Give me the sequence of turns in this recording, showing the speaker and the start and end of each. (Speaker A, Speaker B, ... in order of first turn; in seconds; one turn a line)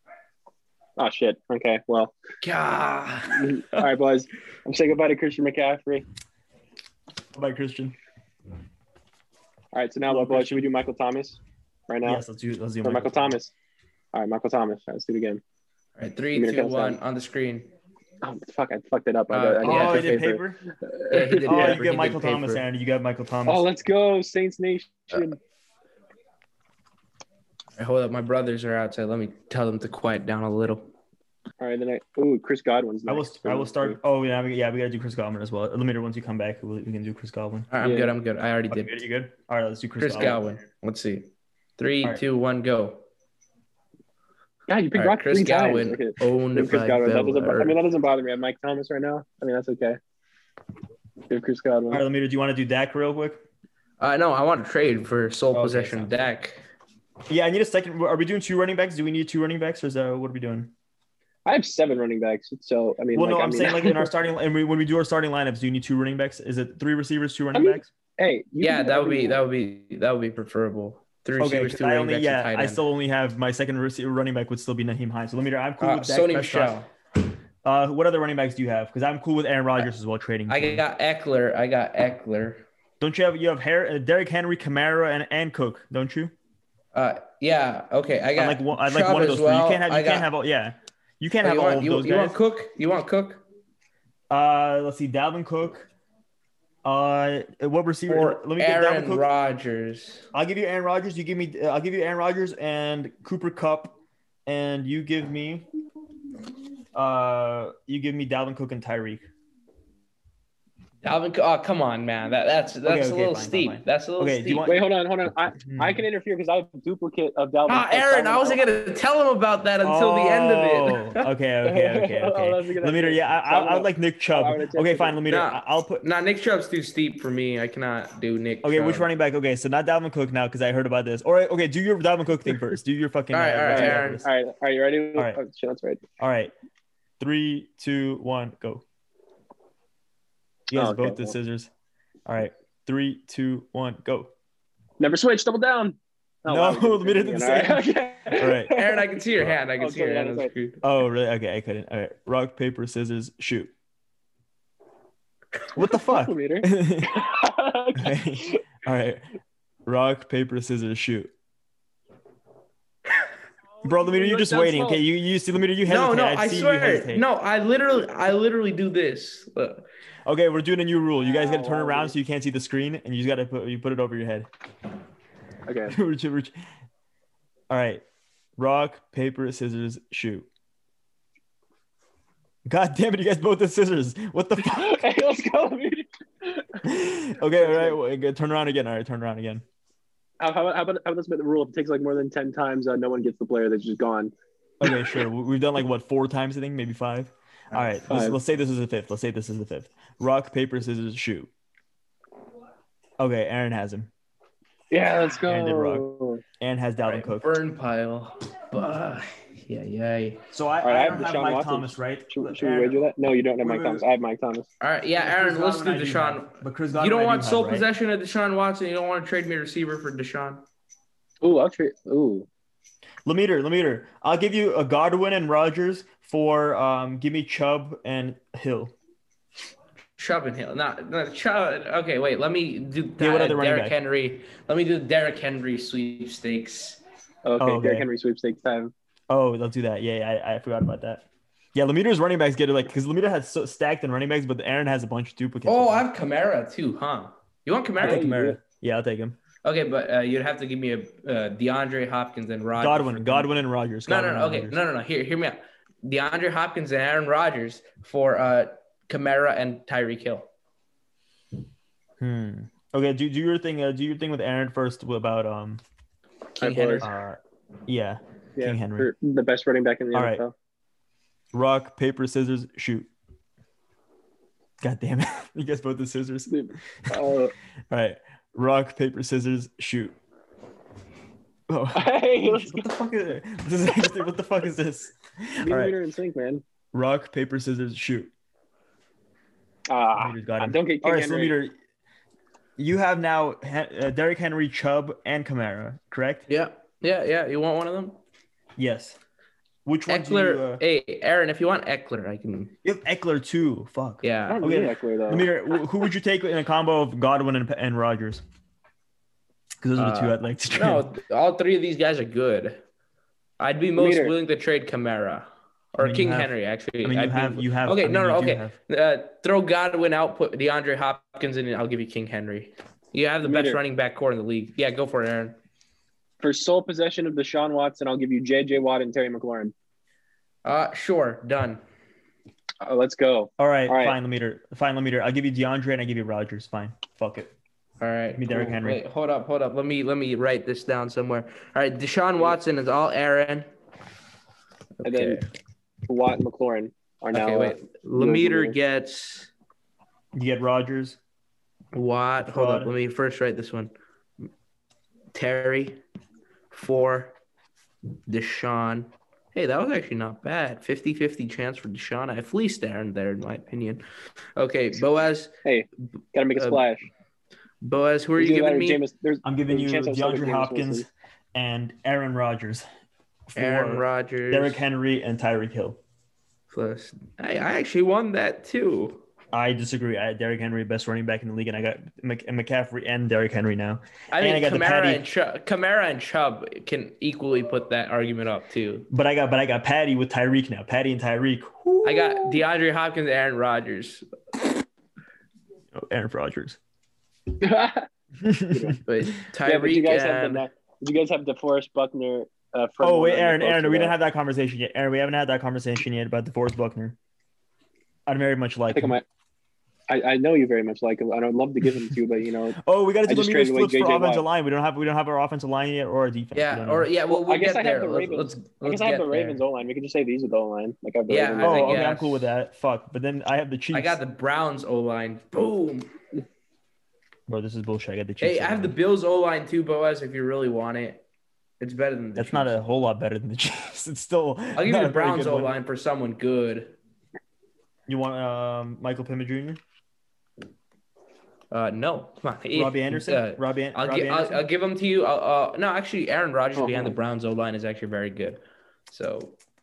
Speaker A: 1.0-2.1
Speaker B: 2.4-3.9
Speaker A: 3.3-6.0
Speaker C: 7.3-8.0
Speaker A: 9.7-12.2
Speaker C: 10.1-10.7
Speaker C: 12.0-13.3
Speaker A: 12.8-13.5
Speaker A: 14.1-15.4
Speaker B: 16.0-17.7
Speaker A: 16.3-17.0
Speaker A: 18.2-21.8
Speaker B: 19.3-20.2
Speaker C: 19.6-20.6
Speaker B: 21.1-22.6
Speaker C: 21.4-23.6
Speaker A: 23.4-25.4
Speaker B: 27.8-30.9
Speaker A: 31.6-34.0
Speaker C: 33.1-37.7
Speaker B: 37.7-39.0
Speaker A: 37.8-38.1
Speaker C: 38.7-40.6
Speaker B: 40.0-43.0
Speaker A: 44.7-50.0
Speaker B: 44.9-47.8
Speaker A: 51.3-52.0
Speaker C: 51.9-53.4
Speaker B: 54.0-56.6
Speaker C: 55.5-56.3
Speaker C: 57.3-60.7
Speaker A: 61.4-64.1
Speaker C: 63.1-67.9
Speaker A: 67.5-69.4
Speaker B: 68.6-72.8
Speaker C: 71.4-76.8
Speaker B: 75.8-76.9
Speaker C: 77.6-80.8
Speaker B: 80.5-82.6
Speaker C: 83.0-86.3
Speaker B: 86.9-90.3
Speaker C: 88.4-92.3
Speaker B: 91.4-93.4
Speaker C: 94.3-95.9
Speaker C: 96.8-99.3
Speaker B: 98.1-100.2
Speaker C: 100.3-105.6
Speaker C: 106.9-109.3
Speaker B: 111.0-114.7
Speaker C: 112.8-114.8
Speaker A: 114.7-118.7
Speaker C: 115.6-116.0
Speaker B: 117.7-121.2
Speaker C: 119.8-126.0
Speaker A: 121.6-125.2
Speaker B: 125.3-129.1
Speaker C: 128.6-134.3
Speaker B: 133.3-134.2
Speaker A: 133.7-136.0
Speaker C: 136.2-136.5
Speaker C: 137.2-138.8
Speaker C: 140.7-141.7
Speaker A: 140.7-141.3
Speaker C: 142.2-144.3
Speaker A: 145.0-149.2
Speaker C: 146.5-148.8
Speaker B: 148.7-150.8
Speaker A: 149.8-150.5
Speaker C: 150.8-153.7
Speaker C: 155.7-157.2
Speaker A: 155.8-158.6
Speaker C: 157.9-159.2
Speaker C: 159.8-161.3
Speaker A: 163.8-165.0
Speaker C: 163.8-167.2
Speaker B: 165.8-169.8
Speaker C: 170.3-174.5
Speaker A: 171.2-172.1
Speaker A: 175.7-175.9
Speaker C: 175.9-176.5
Speaker C: 177.7-178.0
Speaker C: 178.6-180.5
Speaker C: 182.6-185.0
Speaker A: 184.6-186.8
Speaker C: 186.8-189.6
Speaker A: 187.5-188.0
Speaker A: 190.4-194.3
Speaker C: 194.8-201.5
Speaker A: 194.8-195.2
Speaker A: 198.1-198.4
Speaker C: 203.2-204.1
Speaker A: 204.9-206.4
Speaker C: 205.5-206.1
Speaker C: 206.6-207.5
Speaker B: 207.0-210.4
Speaker C: 210.5-214.0
Speaker A: 210.8-214.7
Speaker B: 214.8-220.6
Speaker C: 215.2-217.8
Speaker A: 221.4-222.5
Speaker C: 223.2-228.9
Speaker B: 230.2-237.0
Speaker C: 233.2-233.9
Speaker A: 237.4-238.9
Speaker C: 237.6-238.1
Speaker C: 239.3-246.1
Speaker B: 245.7-248.3
Speaker A: 248.0-248.6
Speaker C: 248.0-249.4
Speaker B: 249.6-253.5
Speaker C: 252.8-254.8
Speaker B: 254.1-260.5
Speaker C: 262.2-265.8
Speaker B: 266.6-267.1
Speaker A: 266.6-267.1
Speaker C: 267.0-269.1
Speaker A: 268.6-270.5
Speaker C: 270.1-270.4
Speaker C: 271.5-273.1
Speaker C: 274.8-276.5
Speaker A: 276.5-277.5
Speaker C: 277.9-280.1
Speaker C: 281.7-285.9
Speaker A: 281.9-282.9
Speaker A: 285.6-286.6
Speaker C: 286.9-288.3
Speaker A: 289.9-291.6
Speaker C: 290.1-291.8
Speaker C: 292.8-296.4
Speaker B: 296.5-298.2
Speaker C: 298.8-299.2
Speaker C: 299.8-300.8
Speaker B: 300.1-302.7
Speaker C: 302.8-308.4
Speaker B: 304.2-304.6
Speaker A: 304.5-305.5
Speaker C: 309.8-311.1
Speaker B: 310.0-312.8
Speaker B: 313.6-325.6
Speaker A: 313.9-314.3
Speaker C: 316.0-316.5
Speaker C: 317.0-318.7
Speaker A: 323.4-323.8
Speaker A: 326.4-329.7
Speaker B: 330.6-331.8
Speaker A: 332.8-334.2
Speaker C: 333.6-337.5
Speaker B: 338.0-343.7
Speaker C: 338.3-339.0
Speaker B: 345.0-345.4
Speaker A: 345.0-345.4
Speaker A: 346.1-348.8
Speaker B: 347.3-349.5
Speaker C: 350.3-351.2
Speaker B: 351.9-353.9
Speaker C: 352.4-352.9
Speaker B: 355.3-356.0
Speaker B: 356.7-357.3
Speaker B: 358.3-364.0
Speaker B: 364.6-365.5
Speaker A: 365.6-367.1
Speaker B: 366.6-366.8
Speaker B: 367.8-369.0
Speaker A: 368.4-371.1
Speaker C: 369.4-372.8
Speaker C: 373.5-376.0
Speaker B: 373.6-374.8
Speaker B: 376.7-379.2
Speaker C: 379.5-385.2
Speaker B: 384.3-389.1
Speaker C: 389.1-392.6
Speaker B: 392.0-394.2
Speaker C: 395.9-396.8
Speaker A: 397.6-398.1
Speaker C: 398.4-399.0
Speaker A: 398.7-399.0
Speaker B: 399.1-400.6
Speaker A: 399.6-404.1
Speaker C: 403.0-407.2
Speaker C: 408.3-409.1
Speaker A: 408.9-409.2
Speaker A: 410.1-414.4
Speaker C: 412.8-417.1
Speaker B: 416.5-419.6
Speaker A: 417.3-422.0
Speaker B: 421.3-422.5
Speaker C: 421.6-424.2
Speaker B: 423.9-426.1
Speaker C: 427.5-428.9
Speaker B: 428.4-431.2
Speaker B: 431.8-432.9
Speaker C: 432.4-435.7
Speaker B: 434.8-436.9
Speaker C: 438.1-439.8
Speaker B: 441.7-449.6
Speaker C: 442.7-444.6
Speaker A: 446.8-447.1